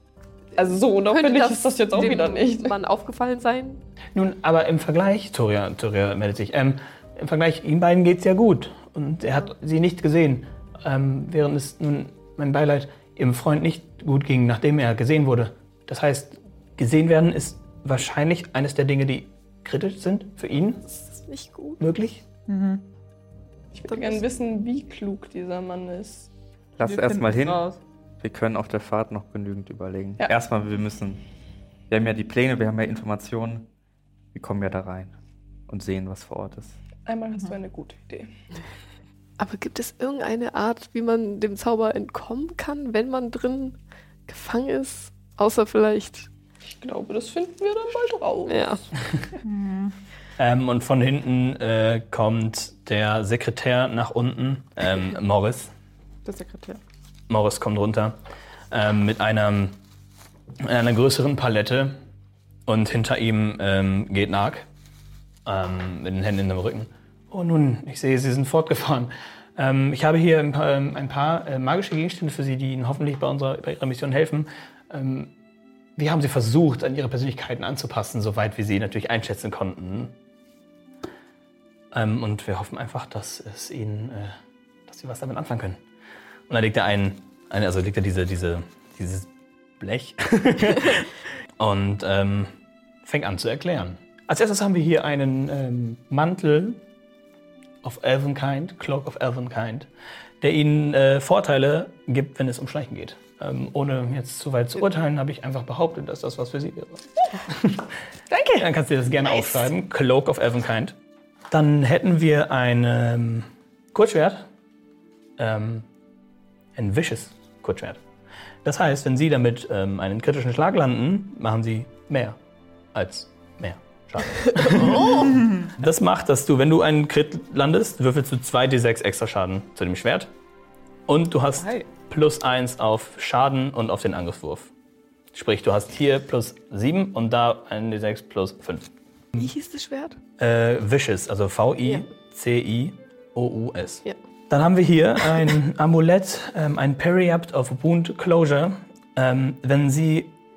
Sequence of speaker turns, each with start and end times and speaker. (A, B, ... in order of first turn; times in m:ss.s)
0:00.6-0:02.8 A
0:00.6-0:03.8 B
0:04.1-0:20.8 C
0:20.8-0:21.8 B
0:21.8-0:22.2 C
0:22.5-0:22.8 D
0:23.7-0:26.3 A
0:23.9-0:24.2 B
0:26.8-0:27.6 E
0:26.8-0:27.8 D
0:28.2-0:31.2 E
0:31.9-0:33.7 E
0:34.3-0:35.1 E
0:35.7-0:36.8 E
0:37.0-0:38.3 A
0:39.4-0:46.3 B
0:46.6-0:48.7 A
0:48.5-0:48.8 B
0:49.4-0:49.9 D
0:50.4-0:55.7 C
0:56.2-0:56.8 B
0:57.3-0:58.2 C
0:58.7-0:59.8 C
1:00.6-1:02.0 C
1:02.7-1:04.6 C
1:05.4-1:15.3 C
1:16.0-1:20.1 C
1:21.9-1:24.3 C
1:24.9-1:25.8 C
1:26.5-1:29.3 C
1:29.8-1:32.5 C
1:33.0-1:36.8 C
1:37.8-1:39.9 C
1:40.4-1:47.9 C
1:48.3-1:48.7 A
1:48.6-1:50.9 C
1:51.5-1:54.4 C
1:55.4-1:55.8 C
1:56.7-1:58.0 C
1:58.6-2:02.4 C
2:02.9-2:10.3 C
2:05.2-2:05.7 D
2:11.1-2:14.7 C
2:11.6-2:11.9 D
2:15.3-2:19.5 C
2:19.4-2:20.2 B
2:20.4-2:30.3 C